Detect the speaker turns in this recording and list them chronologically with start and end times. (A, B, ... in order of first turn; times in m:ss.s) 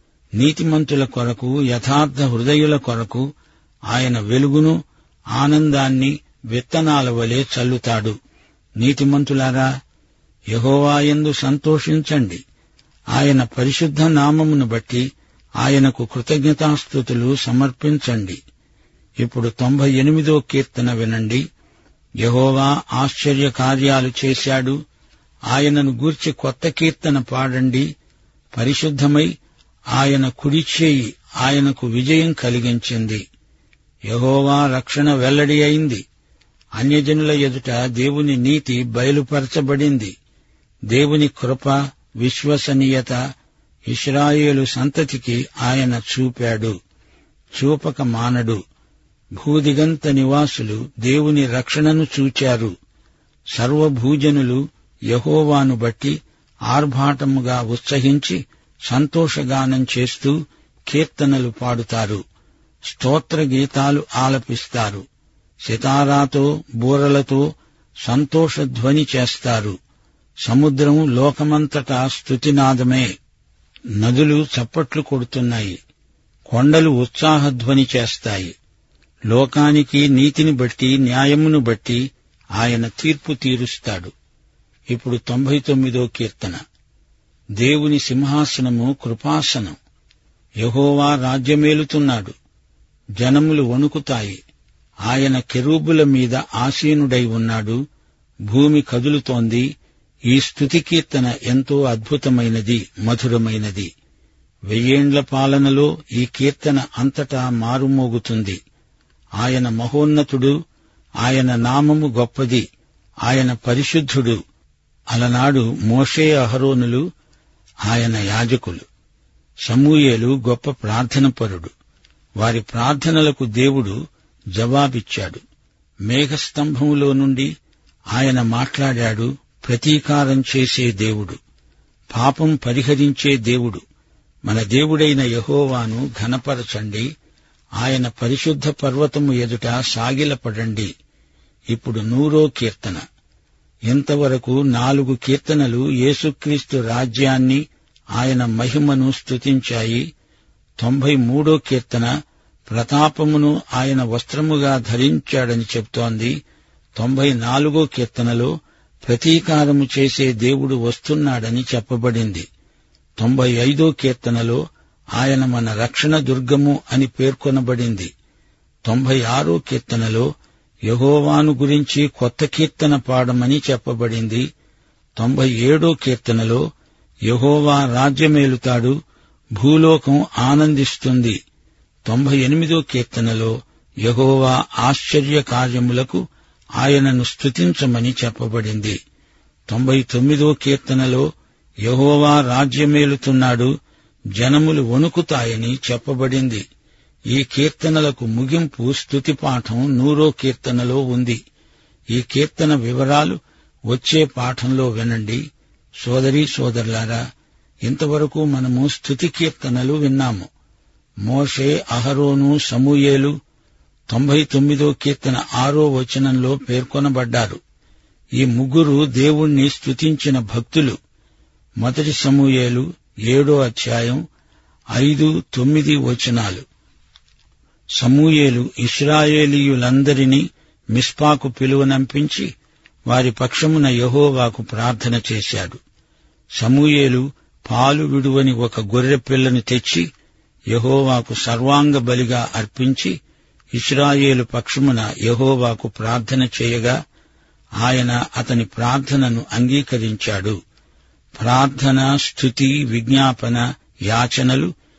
0:00.4-0:03.3 A
0:03.9-0:04.8 A
0:05.4-0:08.2 A
0:08.8-0:09.7 A
0:10.5-0:12.4 A
0:13.1-0:15.0 A
0:15.6-0:18.4 A
0:19.2-0:21.4 A
0:22.2-0:24.8 A
0:25.5-0:27.9 A
0:28.5-0:29.3 A
0:30.0-0:33.2 A
0:34.1-0:36.0 A
0:36.8-0:40.1 A
0:40.9-0:43.2 A
0:43.9-0:46.7 A
0:47.5-0:48.6 A
0:49.4-0:52.7 A
0:53.5-0:56.2 A
0:56.7-1:00.4 A
1:00.9-1:02.2 A
1:02.9-1:05.0 A
1:05.6-1:07.4 A
1:08.0-1:09.8 A
1:10.4-1:13.1 A
1:14.0-1:15.8 A
1:16.5-1:18.5 A
1:19.3-1:22.0 A
1:22.6-1:24.1 A
1:24.9-1:26.6 A
1:27.6-1:29.8 A
1:30.6-1:32.3 A
1:33.2-1:34.4 A
1:35.1-1:37.8 A
1:38.5-1:39.7 A
1:40.3-1:43.9 A
1:44.7-1:48.6 A
1:49.4-1:50.5 A
1:51.2-1:52.6 A
1:53.3-1:54.4 A
1:55.1-1:57.0 A
1:57.8-1:58.8 A
1:59.7-2:01.7 A
2:02.4-2:04.0 A
2:04.6-2:05.4 A
2:06.1-2:07.5 A
2:08.1-2:11.4 A
2:12.1-2:13.8 A
2:14.4-2:17.1 A
2:17.8-2:20.9 A
2:21.7-2:23.0 A
2:23.9-2:27.6 A
2:28.2-2:30.0 A
2:30.8-2:32.1 A
2:32.7-2:36.4 A
2:37.0-2:38.5 A
2:39.0-2:42.5 A
2:43.2-2:44.6 A
2:45.2-2:48.1 A
2:48.8-2:50.3 A
2:50.9-2:54.4 A
2:55.2-2:56.6 A
2:57.3-2:59.0 A
2:59.6-3:01.4 A
3:02.0-3:06.2 A
3:06.8-3:09.0 A
3:09.7-3:11.3 A
3:11.8-3:13.7 A
3:14.4-3:16.6 A
3:17.3-3:21.4 A
3:22.1-3:25.4 A
3:26.0-3:27.2 A
3:27.8-3:30.5 A
3:31.2-3:33.3 A
3:34.1-3:37.6 A
3:38.4-3:41.0 A
3:41.8-3:44.2 A
3:44.9-3:46.6 A
3:48.0-3:52.5 A
3:53.1-3:55.8 A
3:56.6-4:00.1 A
4:00.7-4:03.2 A
4:03.8-4:07.0 A
4:07.8-4:10.6 A
4:11.4-4:14.7 A